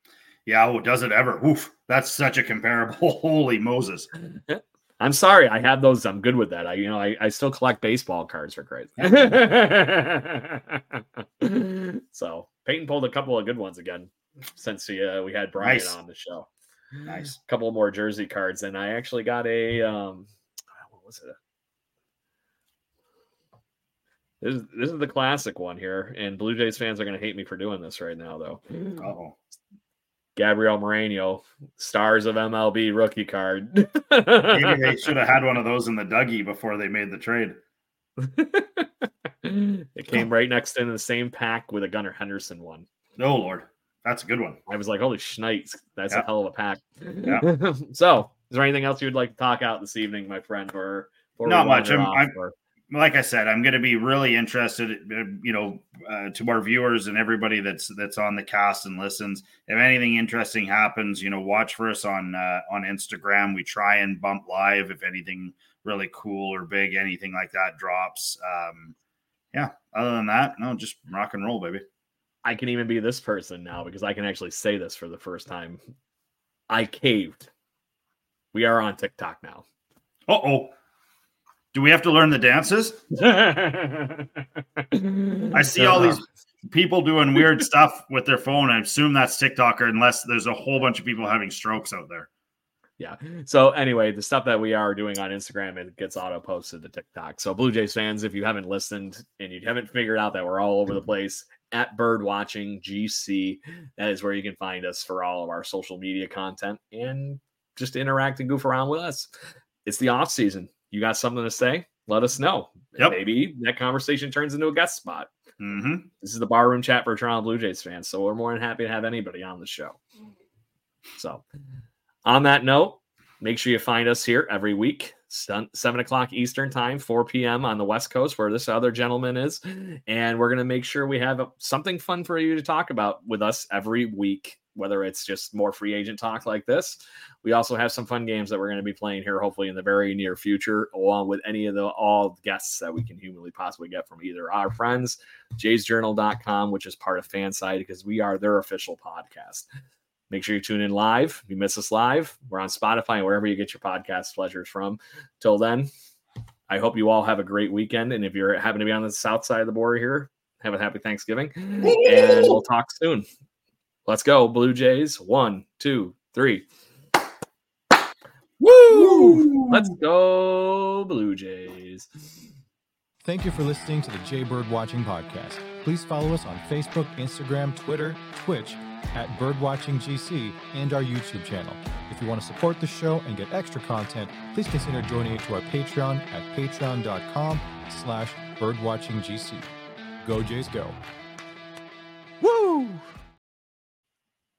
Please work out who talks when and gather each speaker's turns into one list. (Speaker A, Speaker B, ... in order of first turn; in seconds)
Speaker A: 0.5-4.1, 9.0-9.4, 15.6-16.0, 17.1-17.4, 29.0-29.3, 34.5-37.6, 43.2-44.6, 51.5-52.3, 52.9-68.9, 69.5-71.8, 80.3-80.7, 81.7-83.1, 85.5-92.3, 115.6-116.1, 161.8-162.6, 168.9-169.9
Speaker B: 4.5-16.5, 17.4-20.3, 20.8-21.4, 24.4-29.0, 30.4-35.0, 38.2-42.9, 44.7-52.5, 72.4-75.8, 76.7-77.5, 78.5-79.6, 83.2-84.2, 84.9-86.2, 93.0-109.3, 109.8-115.3, 116.2-120.0, 121.2-121.4, 122.2-149.7, 150.3-155.9, 156.7-163.2, 164.1-166.7, 168.6-172.1
Speaker C: 173.2-189.7, 190.2-191.0